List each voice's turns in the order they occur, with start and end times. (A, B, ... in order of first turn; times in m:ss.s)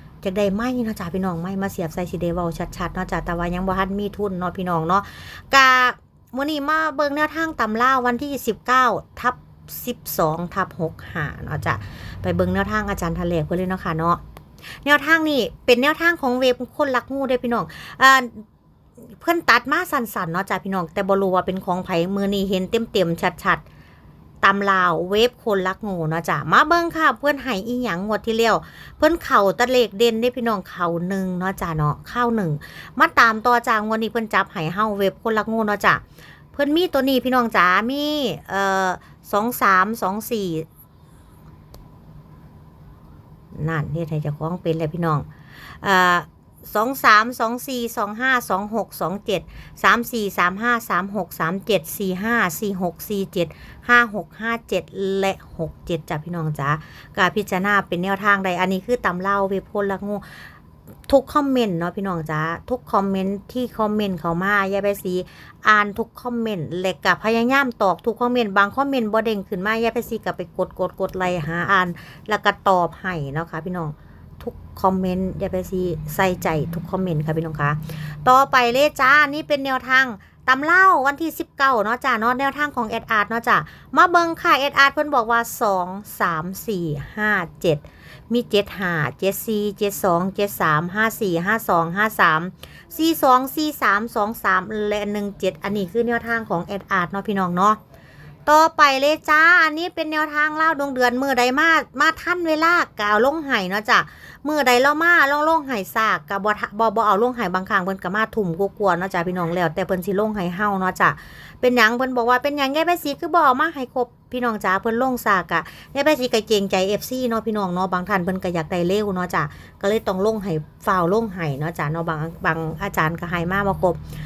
0:00.2-0:14.2 A
0:14.8-0:18.4 A
0:19.2-0:23.6 A
0:24.4-0:36.0 A
0:36.5-0:40.6 A
0:43.5-0:45.3 A
0:45.8-1:00.5 A
1:01.1-1:37.8 A
1:38.5-2:04.0 A